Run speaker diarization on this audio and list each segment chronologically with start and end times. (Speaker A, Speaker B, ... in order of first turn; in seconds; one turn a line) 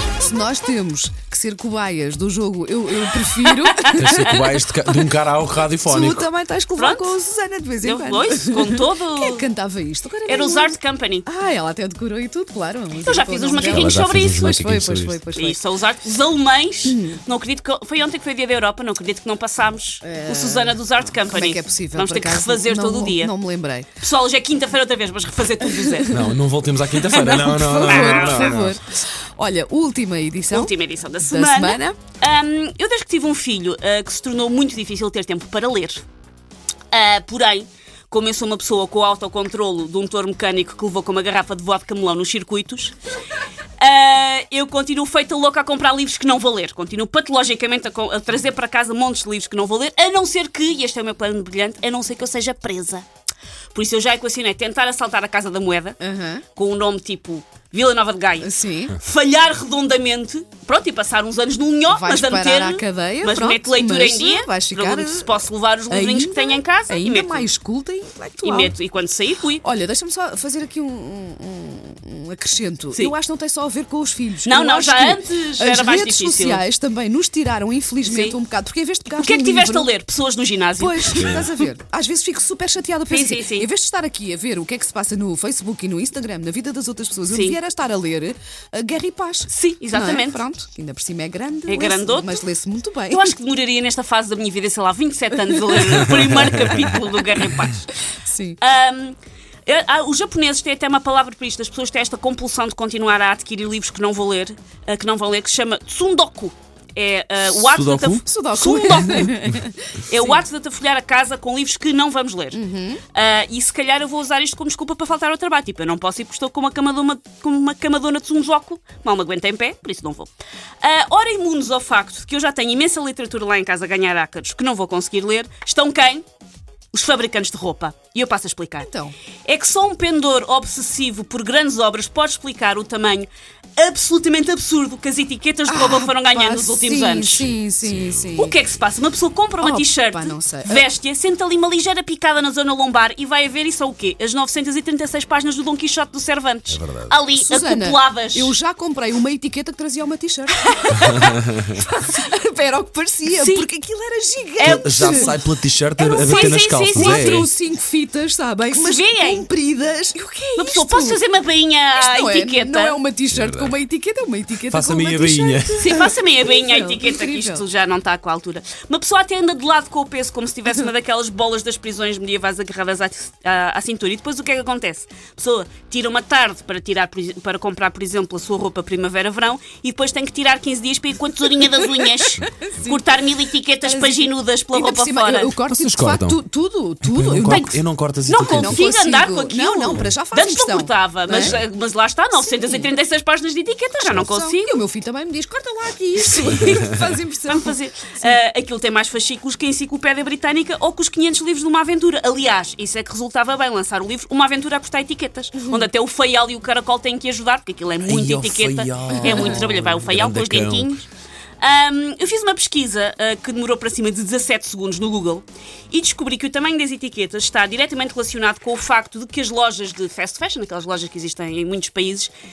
Speaker A: 0.2-5.1
Speaker B: 3.5-4.5
Speaker C: 3.9-6.3
Speaker A: 5.8-15.6
Speaker B: 6.8-7.1
Speaker B: 7.8-9.4
Speaker B: 10.3-11.3
Speaker B: 13.0-14.5
Speaker C: 13.6-15.2
Speaker B: 15.3-23.3
Speaker A: 16.9-17.2
Speaker A: 20.0-23.9
Speaker B: 24.0-26.2
Speaker A: 25.8-26.4
Speaker C: 26.1-28.7
Speaker A: 27.0-32.0
Speaker B: 27.8-28.6
Speaker B: 30.5-36.0
Speaker B: 36.9-43.0
Speaker B: 43.8-53.0
Speaker B: 53.7-56.0
Speaker A: 56.0-56.4
Speaker B: 56.6-67.5
Speaker A: 58.4-59.0
Speaker A: 61.9-68.7
Speaker B: 68.4-69.6
Speaker A: 69.6-79.9
Speaker B: 74.4-76.6
Speaker B: 78.0-78.4
Speaker B: 79.1-81.5
Speaker A: 80.8-93.3
Speaker B: 83.1-83.7
Speaker B: 87.3-87.6
Speaker B: 89.5-90.4
Speaker B: 91.7-92.4
Speaker B: 93.1-97.9
Speaker A: 98.3-98.6
Speaker B: 98.6-109.5
Speaker C: 107.7-108.2
Speaker A: 108.2-110.4
Speaker B: 110.1-112.6
Speaker A: 112.5-113.0
Speaker B: 113.1-120.3
Speaker B: 120.8-126.2
Speaker B: 126.9-128.9
Speaker A: 128.8-129.1
Speaker B: 129.5-137.5
Speaker A: 135.7-138.6
Speaker C: 137.8-138.3
Speaker B: 138.4-148.6
Speaker A: 139.6-140.8
Speaker C: 146.7-147.2
Speaker A: 147.3-155.3
Speaker B: 150.7-151.3
Speaker C: 151.2-151.7
Speaker B: 153.3-153.7
Speaker B: 154.6-155.3
Speaker C: 154.6-157.5
Speaker B: 156.0-157.5
Speaker A: 156.0-161.2
Speaker B: 158.7-159.5
Speaker B: 160.6-163.0
Speaker A: 162.0-167.6
Speaker C: 163.3-163.8
Speaker C: 164.7-165.9
Speaker B: 165.8-185.5
Speaker A: 181.8-183.0
Speaker A: 183.8-187.8
Speaker C: 185.7-186.4
Speaker C: 187.0-188.8
Speaker B: 187.5-194.8
Speaker A: 188.5-191.6
Speaker A: 192.5-192.9
Speaker A: 194.2-198.4
Speaker B: 196.2-211.1
Speaker C: 208.0-211.0
Speaker B: 211.6-222.3